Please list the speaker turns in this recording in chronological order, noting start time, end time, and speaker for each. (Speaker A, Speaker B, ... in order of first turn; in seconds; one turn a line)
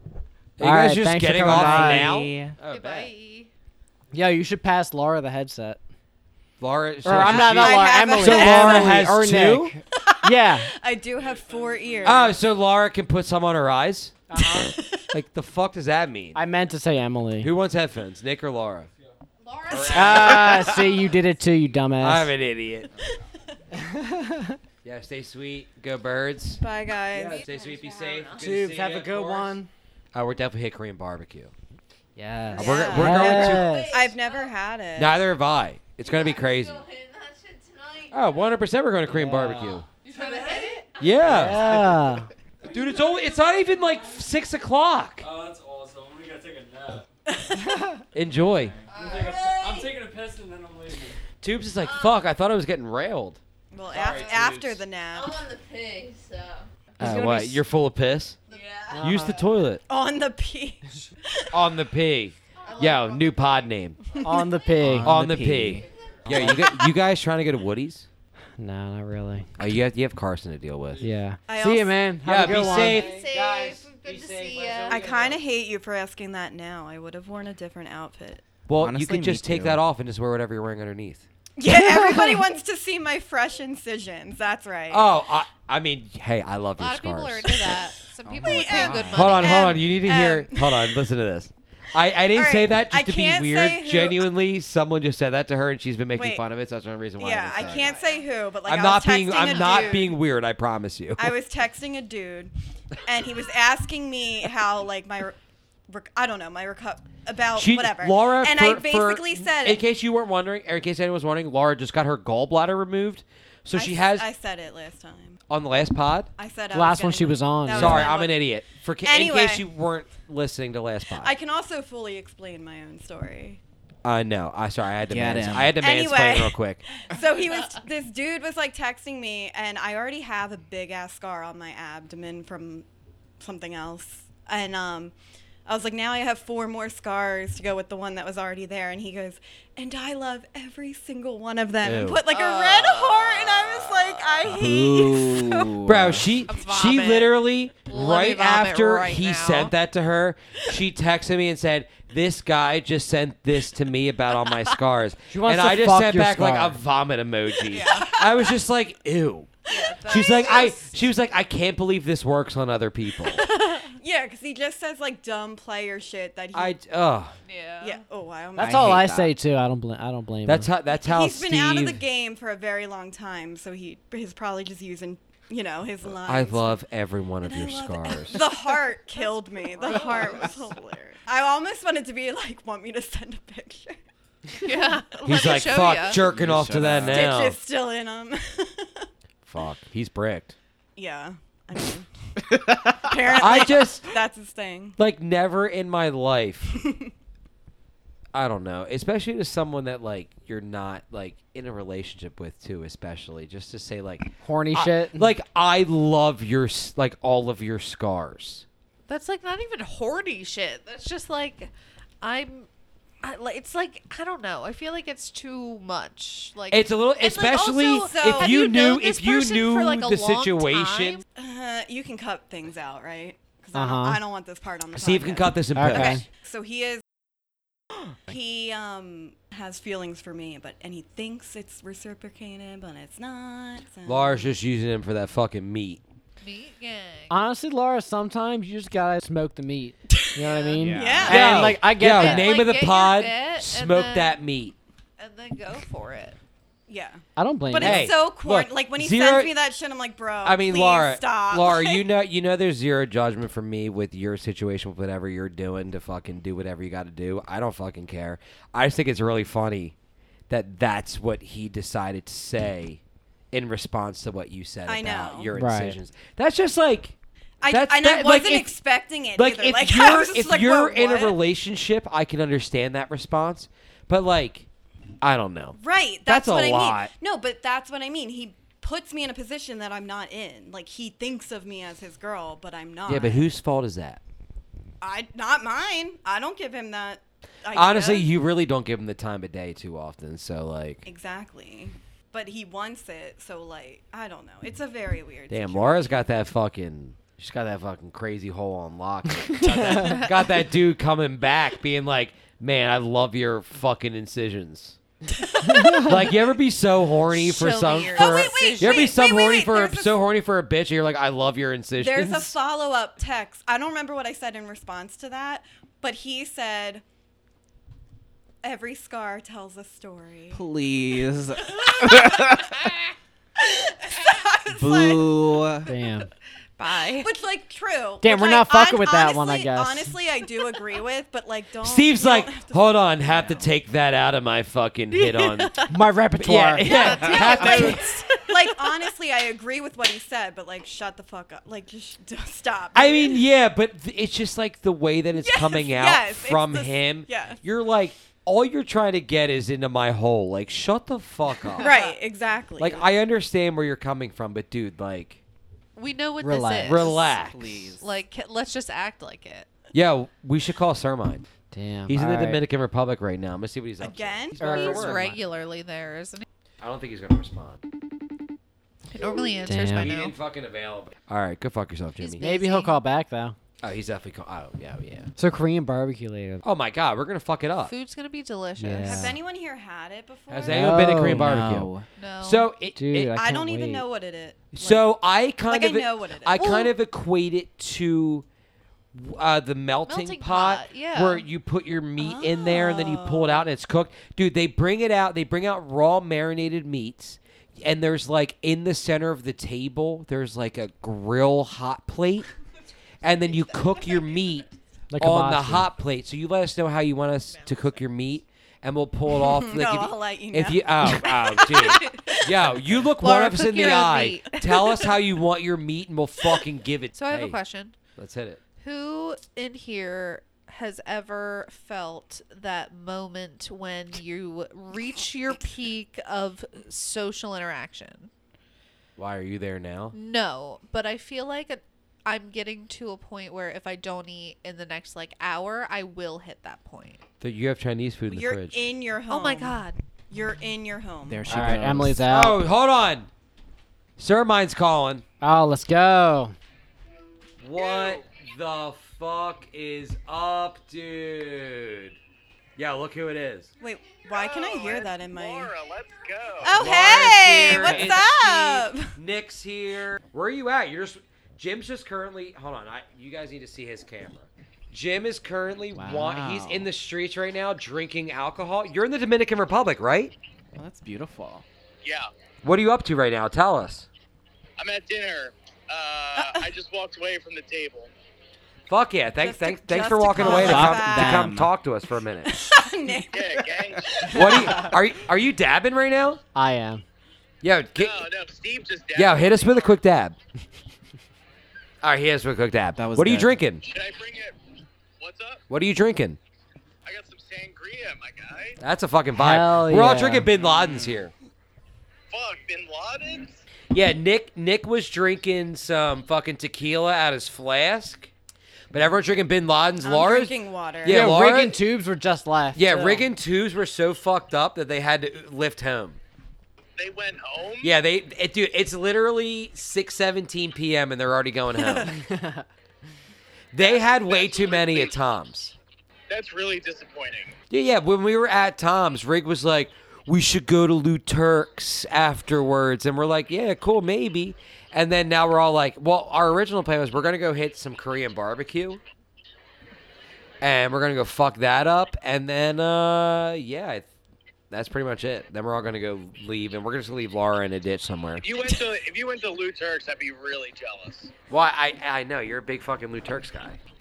Speaker A: 0.6-3.1
Speaker B: 0.6-2.1
Speaker C: 1.5-2.6
Speaker D: 2.7-3.5
Speaker B: 4.1-5.8
Speaker A: 6.6-9.8
Speaker B: 7.0-10.7
Speaker E: 7.1-9.1
Speaker E: 10.0-12.4
Speaker F: 11.2-12.1
Speaker A: 12.0-14.2
Speaker B: 14.3-14.7
Speaker E: 14.4-15.0
Speaker A: 15.1-16.4
Speaker B: 16.3-17.5
Speaker A: 17.4-18.9
Speaker G: 19.4-20.8
Speaker A: 19.7-20.6
Speaker D: 19.8-20.5
Speaker B: 19.9-22.3
Speaker A: 22.0-22.9
Speaker B: 23.7-24.6
Speaker A: 24.8-26.6
Speaker E: 26.6-27.4
Speaker A: 27.1-29.6
Speaker G: 27.4-28.6
Speaker B: 28.4-29.7
Speaker A: 30.1-31.5
Speaker B: 32.1-33.9
Speaker E: 32.5-35.2
Speaker A: 32.5-33.9
Speaker G: 32.7-34.5
Speaker A: 35.0-36.8
Speaker G: 36.0-38.5
Speaker A: 38.1-39.9
Speaker B: 39.1-39.8
Speaker G: 40.0-41.9
Speaker F: 40.1-40.7
Speaker A: 41.0-41.9
Speaker B: 41.2-42.3
Speaker F: 42.6-43.0
Speaker A: 42.6-45.2
Speaker F: 45.2-47.1
Speaker A: 48.1-48.7
Speaker C: 48.5-48.8
Speaker G: 48.9-49.9
Speaker F: 48.9-51.2
Speaker A: 51.4-53.4
Speaker G: 51.8-52.2
Speaker E: 53.7-55.4
Speaker A: 53.9-54.8
Speaker G: 55.1-56.7
Speaker B: 57.0-57.6
Speaker A: 57.0-58.4
Speaker G: 58.5-59.2
Speaker B: 58.9-59.4
Speaker A: 59.0-59.8
Speaker E: 59.9-61.6
Speaker A: 61.5-64.0
Speaker G: 62.6-64.8
Speaker B: 64.2-65.2
Speaker C: 64.8-66.4
Speaker A: 65.0-68.1
Speaker G: 65.8-66.8
Speaker B: 66.3-66.6
Speaker B: 68.6-69.5
Speaker A: 69.6-71.0
Speaker B: 71.0-75.4
Speaker E: 71.5-72.9
Speaker A: 72.2-73.2
Speaker G: 72.9-74.9
Speaker D: 73.1-75.0
Speaker E: 74.9-78.4
Speaker A: 78.7-81.2
Speaker C: 78.7-79.8
Speaker E: 81.6-85.1
Speaker B: 81.7-82.4
Speaker A: 84.9-87.8
Speaker D: 86.8-89.8
Speaker C: 88.3-89.4
Speaker E: 88.4-91.0
Speaker A: 89.1-97.9
Speaker E: 92.3-94.3
Speaker E: 96.1-96.4
Speaker E: 97.2-100.2
Speaker A: 98.6-101.3
Speaker D: 99.3-100.0
Speaker E: 101.2-102.5
Speaker E: 103.0-105.4
Speaker E: 105.9-109.8
Speaker A: 107.5-114.3
Speaker E: 113.7-115.4
Speaker A: 115.5-116.3
Speaker E: 116.4-119.6
Speaker B: 116.7-118.1
Speaker A: 117.7-121.3
Speaker E: 121.2-123.6
Speaker A: 124.0-126.8
Speaker C: 125.0-125.8
Speaker E: 125.8-132.8
Speaker E: 133.4-135.1
Speaker E: 135.7-145.7
Speaker A: 141.8-142.2
Speaker D: 142.3-143.8
Speaker C: 144.4-146.4
Speaker A: 145.8-159.5
Speaker D: 146.5-149.7
Speaker B: 155.3-156.8
Speaker E: 157.7-158.5
Speaker D: 157.7-158.1
Speaker E: 159.7-160.9
Speaker D: 159.7-160.7
Speaker A: 160.0-163.4
Speaker D: 163.3-163.9
Speaker E: 164.0-166.8
Speaker A: 166.5-167.3
Speaker D: 167.5-168.0
Speaker E: 167.8-169.1
Speaker B: 168.6-170.7
Speaker C: 168.6-169.3
Speaker A: 170.4-172.0
Speaker E: 170.9-176.8
Speaker A: 176.2-178.5
Speaker E: 177.4-184.0
Speaker D: 179.8-180.3
Speaker C: 180.1-180.4
Speaker D: 184.6-186.2
Speaker A: 185.2-187.6
Speaker C: 186.2-187.3
Speaker E: 187.0-189.1
Speaker A: 189.4-190.6
Speaker E: 190.9-192.1
Speaker E: 193.0-195.0
Speaker A: 193.3-194.1
Speaker A: 195.0-196.7
Speaker E: 196.7-197.1
Speaker A: 198.3-208.6
Speaker B: 204.4-205.3
Speaker D: 209.1-211.7
Speaker D: 212.2-212.7
Speaker D: 213.2-221.2
Speaker A: 216.7-221.2
Speaker E: 217.9-218.7
Speaker E: 221.3-227.0
Speaker B: 223.7-224.2
Speaker A: 224.9-226.2
Speaker B: 225.7-226.2
Speaker E: 228.3-234.5
Speaker A: 234.0-236.0
Speaker D: 236.4-237.3
Speaker B: 237.3-242.5
Speaker E: 240.1-241.8
Speaker C: 240.7-241.8
Speaker A: 241.2-244.7
Speaker D: 242.0-244.4
Speaker D: 245.2-246.4
Speaker E: 246.9-252.0
Speaker B: 247.4-248.1
Speaker A: 247.8-249.5
Speaker A: 250.4-259.9
Speaker A: 260.5-263.0
Speaker A: 263.5-267.1
Speaker E: 264.9-265.5
Speaker B: 265.5-266.0
Speaker E: 267.6-271.4
Speaker A: 267.6-268.7
Speaker A: 269.4-274.7
Speaker A: 275.2-277.1
Speaker E: 275.8-283.5
Speaker A: 283.1-284.2
Speaker E: 285.0-288.3
Speaker A: 287.7-291.1
Speaker E: 291.0-296.2
Speaker A: 295.5-305.0
Speaker E: 305.4-306.2
Speaker A: 306.0-312.5
Speaker D: 307.3-309.2
Speaker E: 308.1-310.2
Speaker E: 312.0-317.0
Speaker E: 318.6-320.6
Speaker C: 320.5-322.8
Speaker E: 321.7-322.5
Speaker E: 323.6-325.5
Speaker C: 324.7-325.9
Speaker B: 325.9-326.3
Speaker D: 326.8-327.3
Speaker E: 327.2-333.5
Speaker B: 328.2-330.1
Speaker A: 331.8-338.1
Speaker B: 335.9-337.3
Speaker D: 336.8-339.0
Speaker E: 337.3-343.4
Speaker A: 342.9-352.0
Speaker E: 345.4-347.6
Speaker E: 351.8-353.0
Speaker A: 352.8-355.4
Speaker D: 355.9-359.7
Speaker B: 356.4-357.1
Speaker A: 356.9-357.7
Speaker C: 357.4-358.2
Speaker A: 359.9-361.4
Speaker B: 361.7-362.6
Speaker A: 362.1-365.3
Speaker E: 364.0-364.7
Speaker B: 364.6-365.4
Speaker D: 364.6-366.4
Speaker A: 366.8-367.8
Speaker D: 369.1-370.3
Speaker B: 369.6-370.1
Speaker A: 369.9-372.4
Speaker D: 372.2-372.9
Speaker B: 372.4-373.6
Speaker A: 373.8-375.3
Speaker B: 375.4-376.6
Speaker A: 376.6-377.9
Speaker D: 377.9-379.4
Speaker B: 378.8-379.4
Speaker E: 379.0-381.2
Speaker A: 380.5-383.3
Speaker B: 380.7-381.8
Speaker C: 381.2-382.1
Speaker D: 382.2-382.7
Speaker B: 382.9-384.0
Speaker E: 383.3-385.1
Speaker A: 384.7-388.4
Speaker E: 385.6-386.7
Speaker D: 386.5-386.9
Speaker A: 389.1-402.5
Speaker D: 390.1-391.4
Speaker E: 392.2-393.6
Speaker A: 403.2-404.7
Speaker D: 403.6-404.2
Speaker B: 405.1-405.9
Speaker A: 405.2-417.6
Speaker D: 407.5-408.0
Speaker E: 409.3-412.4
Speaker D: 413.2-415.1
Speaker D: 417.1-418.0
Speaker A: 418.1-418.6
Speaker D: 418.8-428.3
Speaker A: 429.2-430.1
Speaker D: 430.1-437.2
Speaker A: 437.4-438.8
Speaker E: 438.3-441.8
Speaker D: 439.3-440.0
Speaker C: 441.3-442.2
Speaker B: 441.5-442.6
Speaker A: 442.2-443.3
Speaker A: 444.2-445.2
Speaker B: 445.4-446.5
Speaker A: 447.6-452.2
Speaker H: 447.8-448.2
Speaker A: 452.8-453.7
Speaker E: 453.8-455.7
Speaker H: 454.3-456.9
Speaker E: 456.6-459.1
Speaker A: 456.7-470.3
Speaker C: 457.7-458.1
Speaker C: 465.9-466.9
Speaker C: 470.8-471.6
Speaker H: 472.0-472.3
Speaker A: 472.6-474.1
Speaker H: 474.8-478.1
Speaker E: 476.4-476.6
Speaker A: 478.9-482.5
Speaker E: 479.4-481.6
Speaker C: 480.4-481.7
Speaker E: 482.4-484.8
Speaker H: 483.3-484.1
Speaker A: 484.3-486.4
Speaker B: 486.5-487.0
Speaker A: 487.6-488.2
Speaker H: 488.0-490.0
Speaker A: 489.1-490.4
Speaker A: 492.0-493.8
Speaker C: 492.9-493.6
Speaker H: 493.8-494.5
Speaker H: 495.2-495.6
Speaker A: 495.7-496.4
Speaker H: 497.1-498.8
Speaker A: 498.8-501.3
Speaker B: 499.4-500.5
Speaker C: 500.5-501.2
Speaker H: 502.3-503.6
Speaker A: 503.9-508.3
Speaker A: 508.9-511.8
Speaker E: 510.0-511.3
Speaker B: 511.1-513.2
Speaker A: 512.7-516.2
Speaker H: 517.0-517.9
Speaker A: 517.8-522.1
Speaker B: 522.2-522.6
Speaker A: 523.7-525.7
Speaker H: 523.8-525.1
Speaker H: 526.3-527.5
Speaker A: 527.7-539.0
Speaker A: 540.6-544.0
Speaker A: 544.7-548.4
Speaker H: 548.4-551.3
Speaker A: 551.5-553.8